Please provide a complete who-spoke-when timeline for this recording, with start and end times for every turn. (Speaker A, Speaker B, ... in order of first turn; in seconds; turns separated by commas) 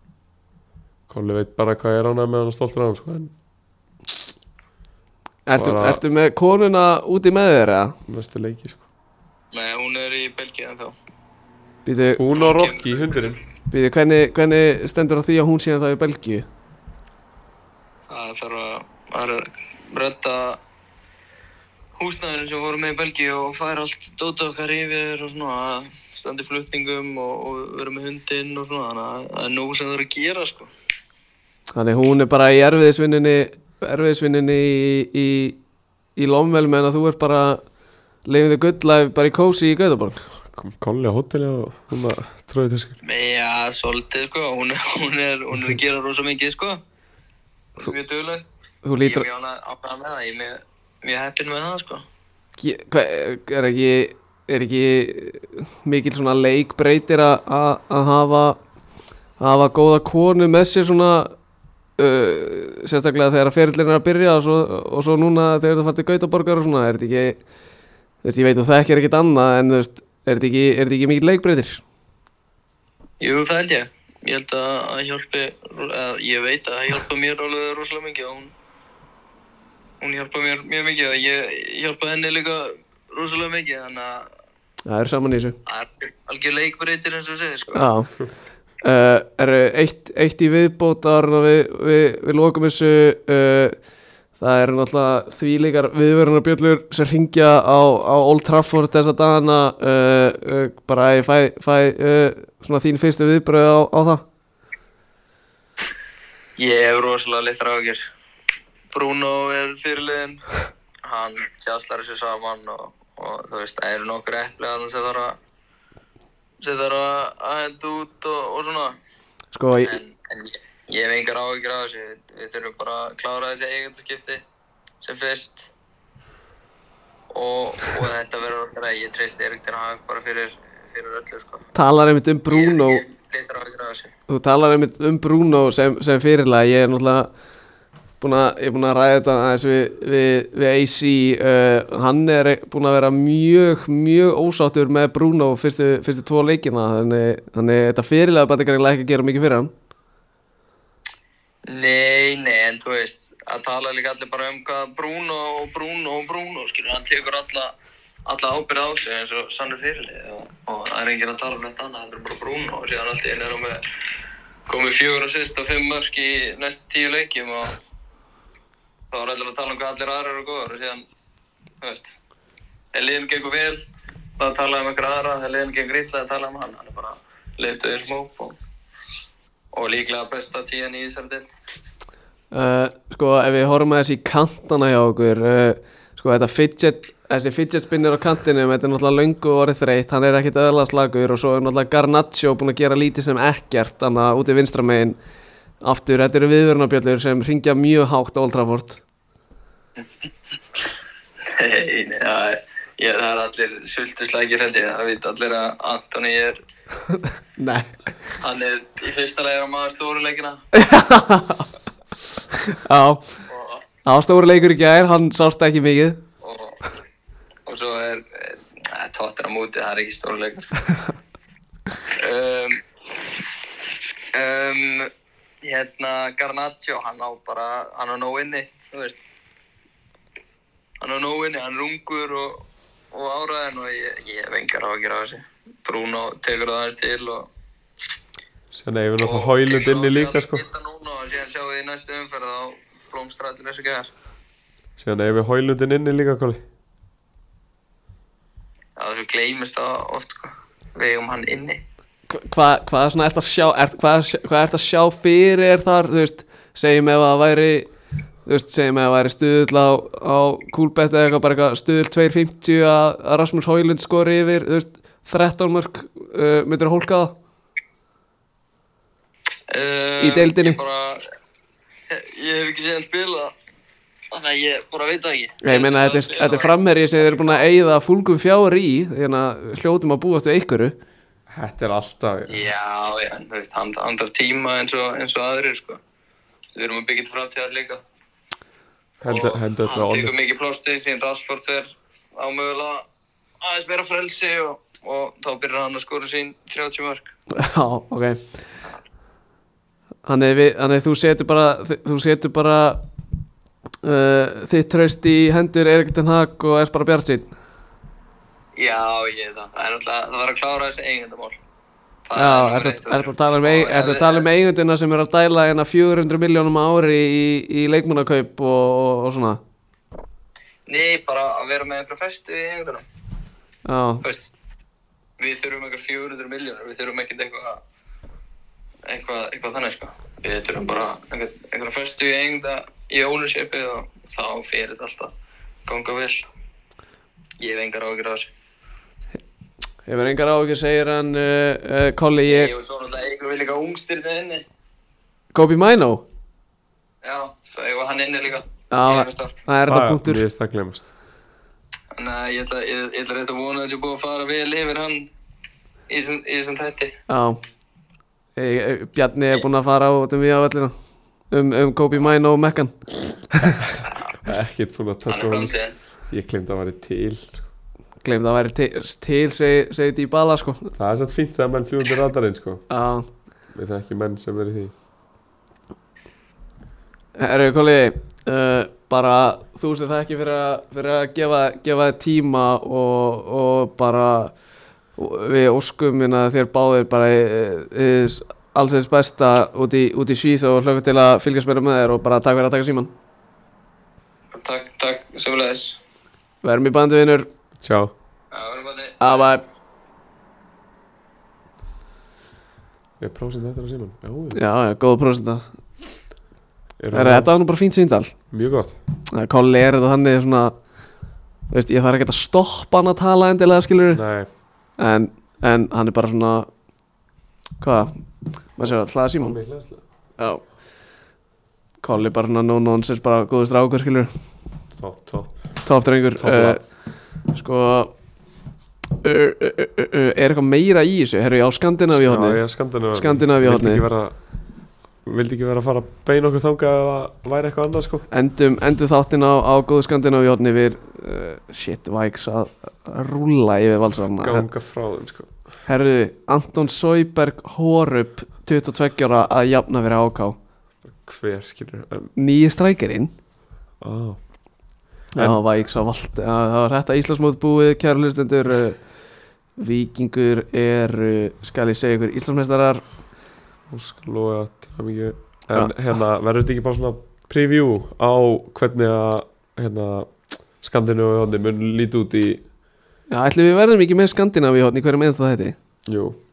Speaker A: 1.1-3.3, Speaker B: 5.5-8.0, Speaker A: 5.5-6.0, Speaker A: 8.1-8.8, Speaker C: 9.5-11.0, Speaker B: 11.9-12.2, Speaker A: 12.2-13.4, Speaker C: 12.3-13.3, Speaker B: 13.7-16.5, Speaker C: 18.1-20.6, Speaker C: 22.0-30.7, Speaker B: 31.7-35.6, Speaker B: 36.2-37.6, Speaker B: 38.3-40.2, Speaker A: 40.4-43.0, Speaker C: 43.0-46.8, Speaker C: 47.8-48.5, Speaker B: 48.8-49.3, Speaker C: 49.0-52.0, Speaker B: 52.6-58.6, Speaker B: 59.4-61.3, Speaker B: 62.0-67.4, Speaker B: 68.2-71.8, Speaker C: 73.2-78.5, Speaker C: 80.0-84.3, Speaker B: 84.9-85.6, Speaker C: 85.7-87.9, Speaker B: 87.7-88.1, Speaker B: 88.8-93.8, Speaker B: 94.4-104.2, Speaker C: 106.6-108.1, Speaker C: 108.9-110.5, Speaker C: 111.0-115.4, Speaker C: 116.6-119.0, Speaker B: 119.5-120.0, Speaker C: 119.8-124.4, Speaker C: 125.0-125.7, Speaker C: 127.3-131.6, Speaker B: 131.7-133.0, Speaker C: 132.5-134.1, Speaker B: 134.3-137.3, Speaker B: 138.2-149.7, Speaker C: 151.7-157.8, Speaker C: 158.3-163.8, Speaker C: 164.7-167.8, Speaker C: 169.1-171.1, Speaker C: 171.8-172.2, Speaker C: 172.9-173.8, Speaker C: 174.4-178.6, Speaker C: 179.7-181.5, Speaker B: 182.5-195.2, Speaker B: 195.8-199.0, Speaker C: 201.4-206.6, Speaker B: 207.1-208.1, Speaker C: 208.4-210.6, Speaker B: 210.7-211.7, Speaker B: 212.5-213.2, Speaker C: 213.5-213.8, Speaker B: 214.1-216.2, Speaker C: 216.4-216.8, Speaker C: 217.7-220.8, Speaker C: 222.1-222.8, Speaker C: 224.3-225.1, Speaker C: 225.6-229.2, Speaker C: 231.0-237.5, Speaker A: 238.7-240.6, Speaker C: 239.2-244.1, Speaker A: 245.0-246.6, Speaker C: 249.0-251.8, Speaker B: 252.3-257.9, Speaker B: 258.5-267.4, Speaker C: 269.7-271.3, Speaker B: 270.2-270.8, Speaker C: 272.1-273.6, Speaker C: 274.3-277.7, Speaker B: 275.6-281.0, Speaker A: 281.5-282.7, Speaker C: 282.5-286.0, Speaker C: 286.8-288.0, Speaker A: 289.2-290.3, Speaker C: 289.2-293.1, Speaker C: 293.6-297.3, Speaker B: 297.5-298.5, Speaker B: 300.3-303.0, Speaker B: 304.0-307.5, Speaker C: 308.8-311.6, Speaker C: 312.3-314.5, Speaker B: 312.4-319.6, Speaker C: 320.9-323.1, Speaker B: 323.9-324.2, Speaker C: 324.2-324.5, Speaker C: 325.4-327.8, Speaker C: 329.1-335.3, Speaker C: 335.9-336.5, Speaker C: 337.6-338.5, Speaker B: 340.1-342.7, Speaker C: 342.5-344.6, Speaker B: 345.5-346.2, Speaker C: 347.2-349.6, Speaker B: 348.9-350.4, Speaker A: 349.9-351.1, Speaker C: 352.1-355.3, Speaker C: 356.1-357.2, Speaker B: 357.3-357.6, Speaker B: 358.6-360.9, Speaker B: 361.5-363.8, Speaker A: 363.9-365.7, Speaker C: 365.3-366.0, Speaker A: 366.3-367.7, Speaker B: 368.2-370.9, Speaker A: 371.0-372.9, Speaker B: 372.9-373.3, Speaker A: 373.7-374.9, Speaker B: 377.4-384.5, Speaker B: 385.2-393.1, Speaker C: 394.5-396.0, Speaker B: 396.6-397.5, Speaker A: 397.8-398.1, Speaker C: 398.5-399.5, Speaker B: 399.2-399.6, Speaker A: 403.2-404.6, Speaker B: 404.5-405.7, Speaker A: 407.0-407.5, Speaker B: 407.1-408.3, Speaker A: 408.5-409.0, Speaker B: 409.3-410.7, Speaker B: 411.7-414.2, Speaker A: 414.1-414.5, Speaker B: 415.0-416.7, Speaker B: 417.8-418.2, Speaker B: 418.8-419.6, Speaker A: 418.8-420.0, Speaker B: 420.4-420.6, Speaker B: 422.0-424.3, Speaker A: 424.9-425.6, Speaker B: 425.8-426.9, Speaker A: 426.4-426.9, Speaker B: 427.5-428.1, Speaker B: 429.2-432.6, Speaker A: 432.1-434.4, Speaker B: 433.1-434.0, Speaker A: 435.2-438.3, Speaker B: 438.3-444.7, Speaker A: 444.4-445.5, Speaker B: 445.9-450.6, Speaker A: 451.1-452.3, Speaker B: 452.4-453.3, Speaker A: 454.0-454.4, Speaker B: 455.4-459.0, Speaker B: 459.8-463.0, Speaker A: 463.9-472.6, Speaker B: 473.3-475.8, Speaker A: 476.1-476.4